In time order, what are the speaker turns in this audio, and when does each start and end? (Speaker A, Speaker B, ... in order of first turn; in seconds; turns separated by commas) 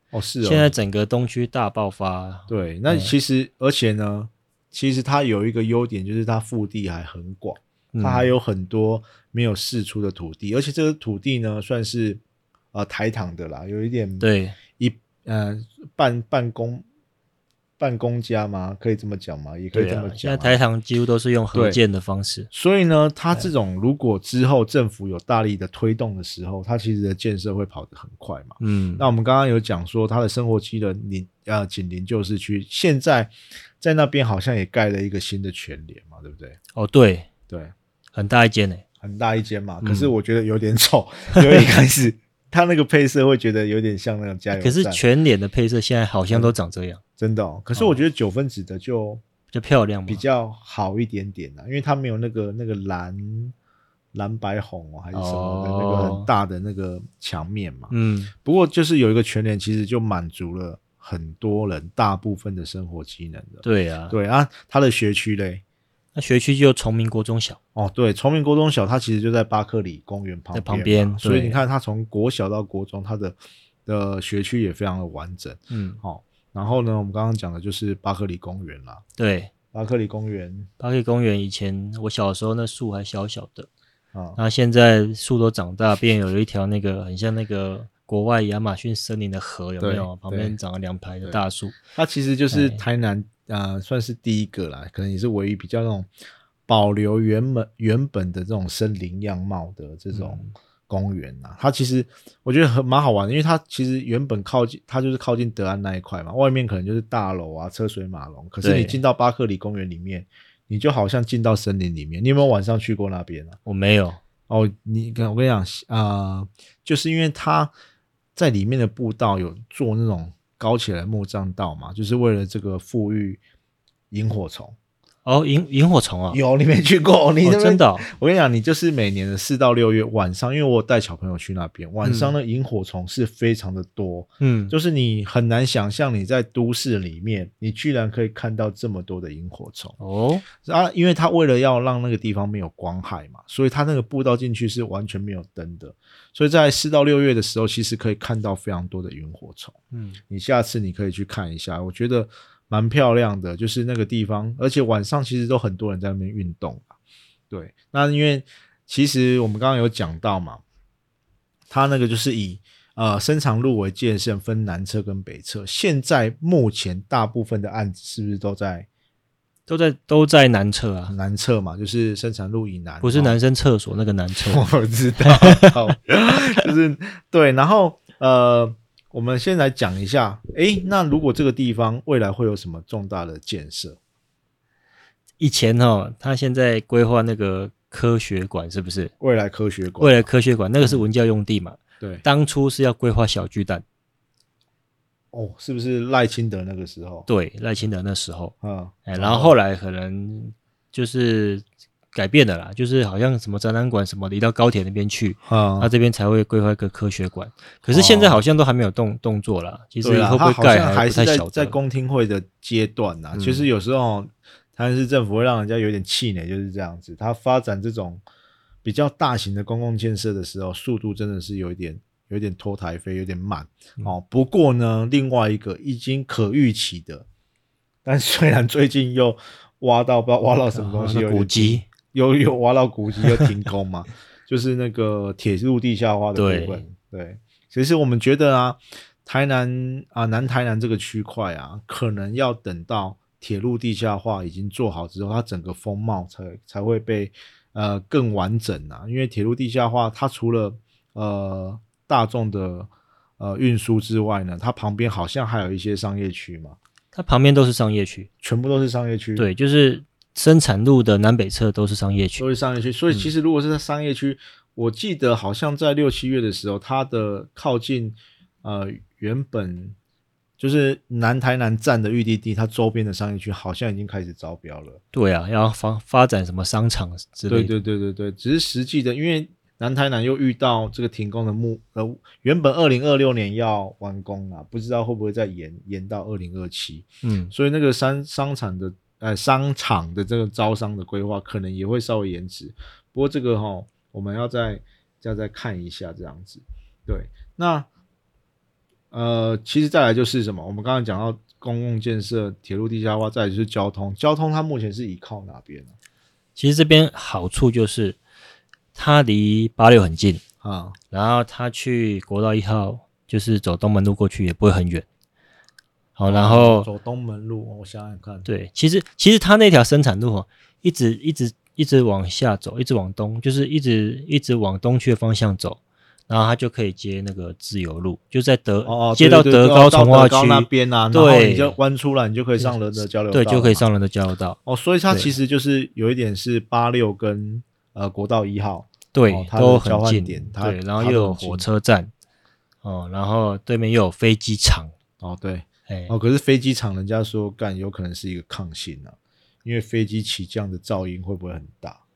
Speaker A: 0.1-0.7, Speaker B: 0.4-3.1, Speaker A: 2.5-12.2, Speaker B: 7.9-8.3, Speaker A: 12.7-16.9, Speaker B: 14.2-14.6, Speaker A: 17.8-20.6, Speaker B: 19.7-22.5, Speaker A: 21.5-21.8, Speaker A: 22.5-36.6, Speaker B: 28.6-29.1, Speaker B: 36.8-37.3, Speaker A: 37.5-37.7, Speaker B: 38.1-38.8, Speaker A: 39.0-45.0, Speaker B: 39.8-40.1, Speaker B: 44.6-47.0, Speaker A: 46.3-46.5, Speaker A: 47.2-49.2, Speaker B: 49.5-50.2, Speaker A: 50.1-53.5, Speaker A: 54.1-65.6, Speaker B: 55.1-56.3, Speaker B: 57.9-58.3, Speaker B: 63.6-64.2, Speaker B: 66.2-67.6, Speaker A: 67.8-79.0, Speaker B: 70.5-71.6, Speaker B: 75.7-76.0, Speaker B: 79.2-79.5, Speaker A: 79.7-80.7, Speaker B: 80.8-83.7, Speaker A: 84.1-84.4, Speaker B: 84.4-91.8, Speaker A: 89.8-90.6, Speaker A: 91.9-96.1, Speaker B: 92.5-92.8, Speaker A: 96.7-113.6, Speaker B: 100.1-100.5, Speaker B: 108.6-109.0, Speaker B: 113.7-114.2, Speaker A: 114.5-117.7, Speaker A: 118.4-123.4, Speaker A: 124.1-124.8, Speaker B: 125.2-126.4, Speaker A: 126.3-139.9, Speaker B: 127.4-128.1, Speaker B: 132.0-132.3, Speaker B: 134.4-134.7, Speaker B: 140.0-140.4, Speaker A: 140.6-149.8, Speaker B: 149.9-150.2, Speaker A: 150.3-156.9, Speaker A: 157.5-160.6, Speaker A: 161.7-168.9, Speaker B: 169.7-171.2, Speaker A: 171.1-173.4, Speaker B: 173.0-174.7, Speaker A: 174.5-184.0, Speaker B: 175.2-175.9, Speaker B: 185.4-189.1, Speaker A: 189.2-190.3, Speaker B: 190.0-193.8, Speaker A: 192.0-192.2, Speaker A: 195.3-197.3, Speaker B: 197.3-198.6, Speaker A: 198.6-199.6, Speaker B: 199.1-211.8, Speaker A: 205.5-205.9, Speaker A: 207.9-208.4, Speaker A: 210.0-218.2, Speaker B: 213.3-213.7, Speaker A: 218.8-227.3, Speaker A: 228.1-256.8, Speaker B: 230.7-231.9, Speaker B: 236.3-236.8, Speaker B: 257.1-258.3, Speaker A: 258.4-259.5, Speaker B: 259.4-262.4, Speaker A: 262.4-270.0, Speaker A: 270.6-275.0, Speaker B: 275.1-277.7, Speaker A: 277.5-297.9, Speaker B: 287.2-287.5, Speaker A: 299.1-305.9, Speaker B: 306.6-308.2, Speaker B: 308.9-310.4, Speaker A: 310.6-311.0, Speaker B: 311.1-315.1, Speaker B: 316.2-316.9, Speaker A: 316.3-318.5, Speaker B: 318.5-331.8, Speaker A: 328.9-333.9, Speaker B: 333.3-334.6, Speaker A: 334.7-341.7, Speaker B: 339.1-342.1, Speaker B: 342.8-344.9, Speaker A: 345.2-352.0, Speaker B: 345.9-346.1